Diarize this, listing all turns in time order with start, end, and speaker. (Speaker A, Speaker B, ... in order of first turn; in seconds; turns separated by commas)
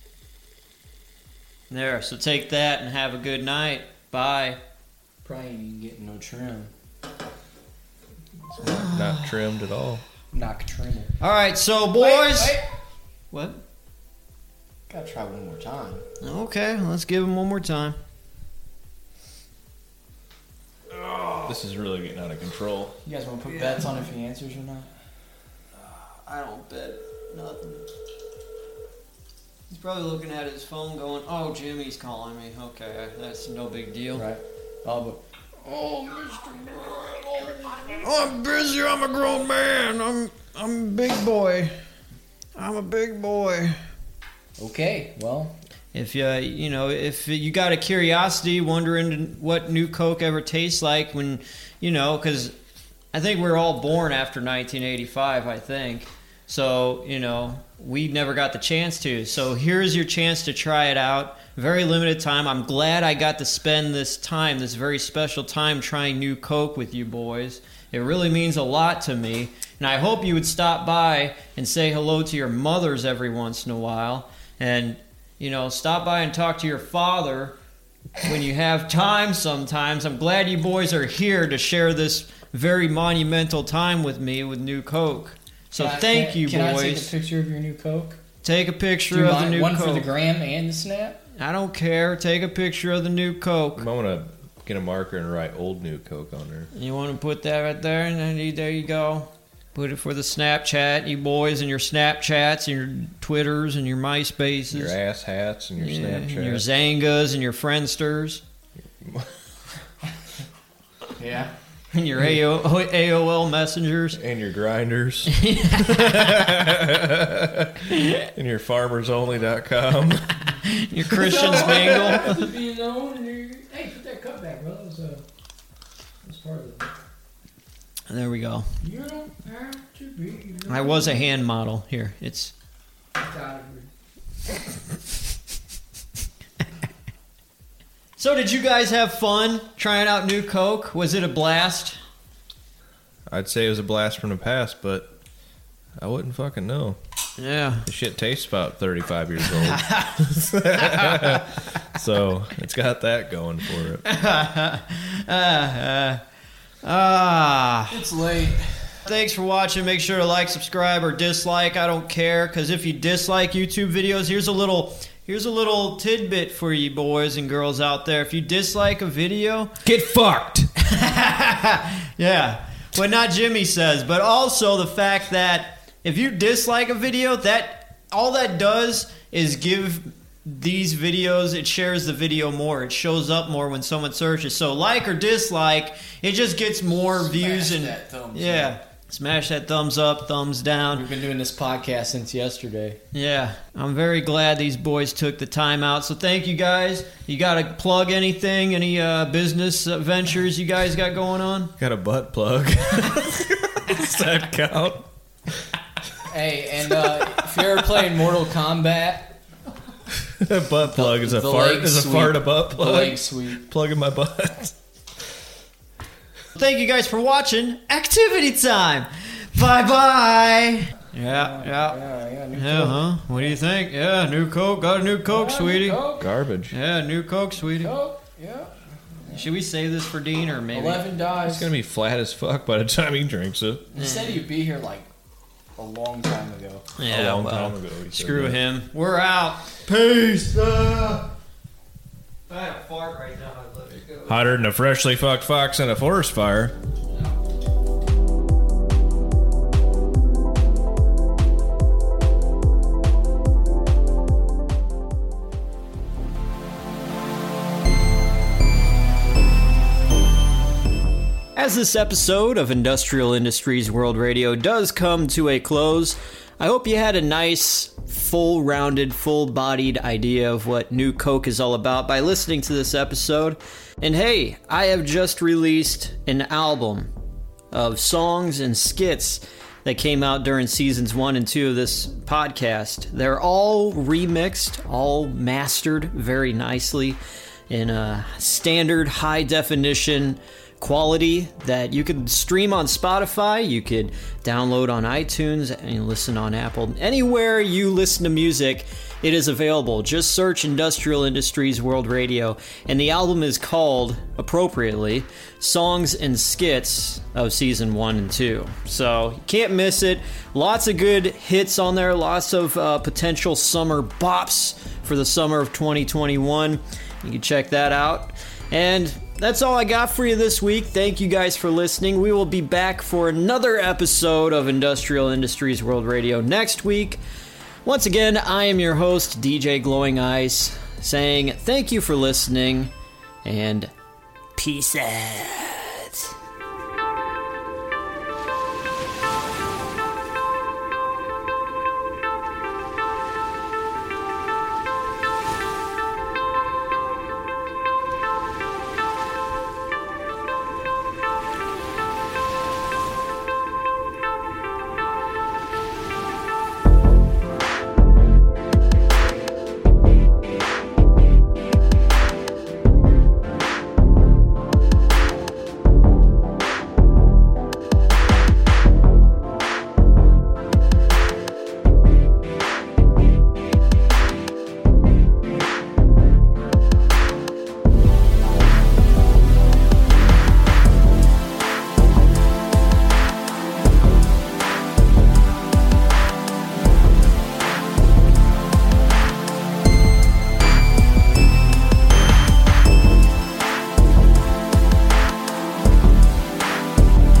Speaker A: 1.7-4.6, Speaker B: 5.2-6.7, Speaker B: 8.5-8.9, Speaker A: 8.6-9.3, Speaker C: 8.7-10.0, Speaker B: 10.3-11.1, Speaker A: 11.2-12.6, Speaker B: 12.0-12.7, Speaker A: 13.3-13.6, Speaker B: 14.9-16.1, Speaker A: 16.2-18.0, Speaker A: 20.9-21.5, Speaker C: 21.4-23.0, Speaker B: 23.0-24.9, Speaker A: 23.4-23.9, Speaker A: 25.8-27.9, Speaker A: 29.7-34.2, Speaker B: 34.1-35.2, Speaker A: 35.6-41.7, Speaker A: 42.5-43.8, Speaker B: 44.6-45.6, Speaker A: 45.9-52.5, Speaker A: 53.1-77.5, Speaker A: 78.2-87.1, Speaker B: 85.7-88.2, Speaker A: 88.4-90.1, Speaker B: 89.1-91.2, Speaker A: 91.4-93.8, Speaker C: 93.8-96.7, Speaker A: 96.7-104.9, Speaker C: 104.7-106.7, Speaker A: 105.8-108.4, Speaker C: 109.0-109.3, Speaker B: 111.2-111.5, Speaker A: 111.9-114.2, Speaker C: 114.2-120.4, Speaker A: 115.3-116.4, Speaker A: 117.9-118.3, Speaker A: 120.6-122.4, Speaker B: 121.1-125.2, Speaker B: 126.2-126.9, Speaker A: 128.1-128.7, Speaker B: 128.8-131.3, Speaker A: 130.7-132.5, Speaker B: 133.1-133.9, Speaker A: 138.2-142.0, Speaker C: 143.3-145.1, Speaker C: 146.0-147.0, Speaker A: 147.4-147.9, Speaker C: 147.8-154.0, Speaker A: 149.6-151.3, Speaker A: 154.0-156.2, Speaker A: 156.8-157.9, Speaker B: 157.9-159.0, Speaker A: 159.1-169.8, Speaker C: 169.8-170.7, Speaker A: 170.8-191.1, Speaker B: 186.9-188.8, Speaker B: 190.9-193.0, Speaker A: 193.1-201.7, Speaker C: 201.8-205.7, Speaker B: 206.2-209.4, Speaker C: 207.0-207.7, Speaker C: 210.2-215.4, Speaker B: 210.9-213.6, Speaker A: 216.6-222.0, Speaker B: 221.2-223.6, Speaker A: 222.5-226.0, Speaker B: 225.2-226.3, Speaker C: 226.2-226.8, Speaker A: 226.7-227.9, Speaker B: 227.8-229.5, Speaker A: 229.3-231.0, Speaker B: 230.7-231.7, Speaker C: 231.4-233.9, Speaker B: 233.9-235.1, Speaker A: 233.9-234.4, Speaker B: 235.8-236.8, Speaker A: 237.0-241.3, Speaker C: 237.1-238.6, Speaker A: 242.5-244.4, Speaker C: 244.3-246.8, Speaker A: 261.6-277.1, Speaker A: 277.7-287.2, Speaker A: 287.7-327.2, Speaker A: 327.8-332.9, Speaker A: 333.4-333.9, Speaker A: 334.6-336.3